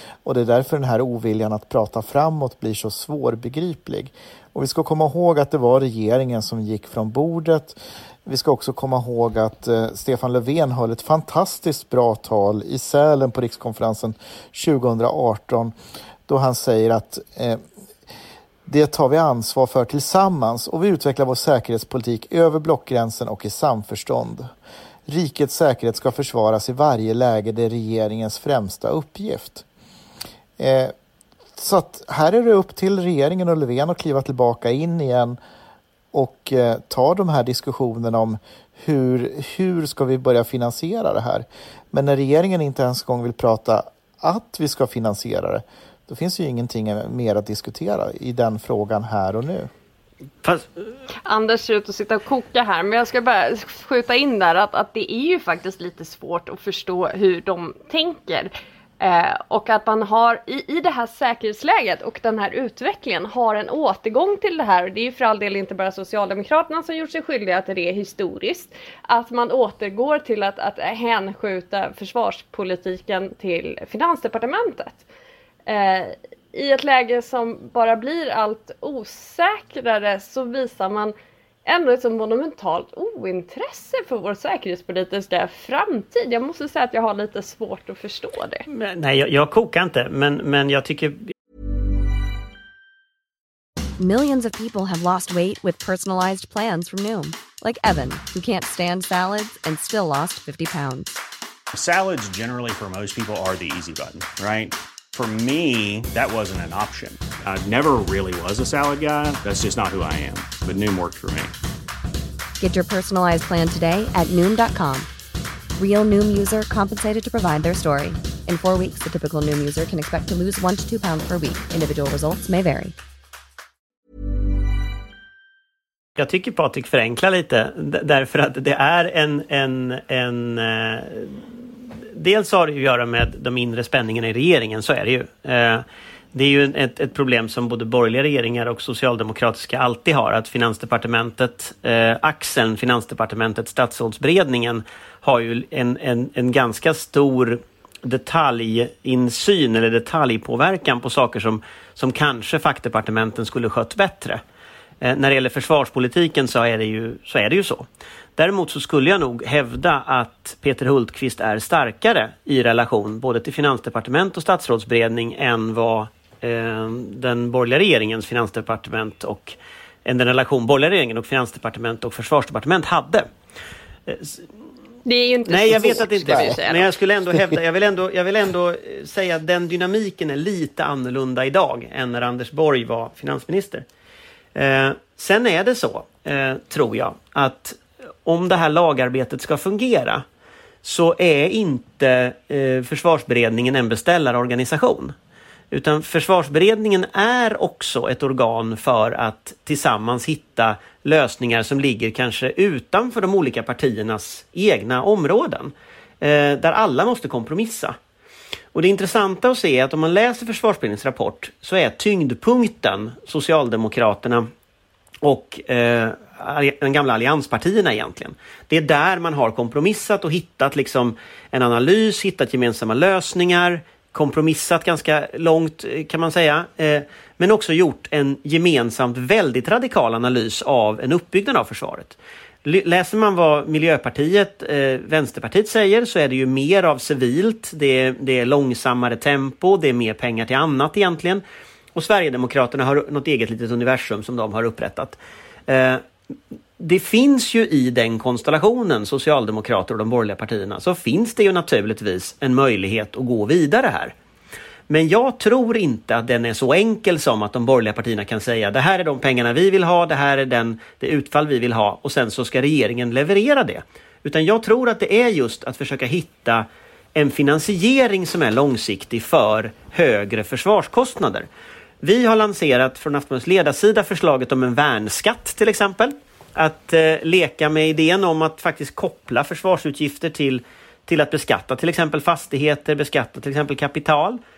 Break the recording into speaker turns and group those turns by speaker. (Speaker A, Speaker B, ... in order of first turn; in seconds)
Speaker A: 0.2-15.7, 16.3-17.6, 18.6-24.5, 25.1-29.6, 30.6-30.9, 31.6-35.4, 36.1-49.7, 175.7-176.6, 177.3-177.6
Speaker B: 50.4-50.7, 88.7-91.3, 126.2-131.4, 132.1-154.4, 155.0-157.8, 158.4-173.3, 174.1-174.4, 175.5-183.8, 184.5-190.2, 190.8-195.1, 195.7-207.9, 208.7-214.5, 215.2-241.4, 241.9-246.0, 246.8-254.1, 254.9-271.5, 272.0-284.4
Speaker C: 51.2-75.0, 75.7-81.1, 81.7-88.6, 175.1-176.9
Speaker D: 94.0-101.2, 112.6-115.1, 115.8-122.9
Speaker E: 101.7-111.5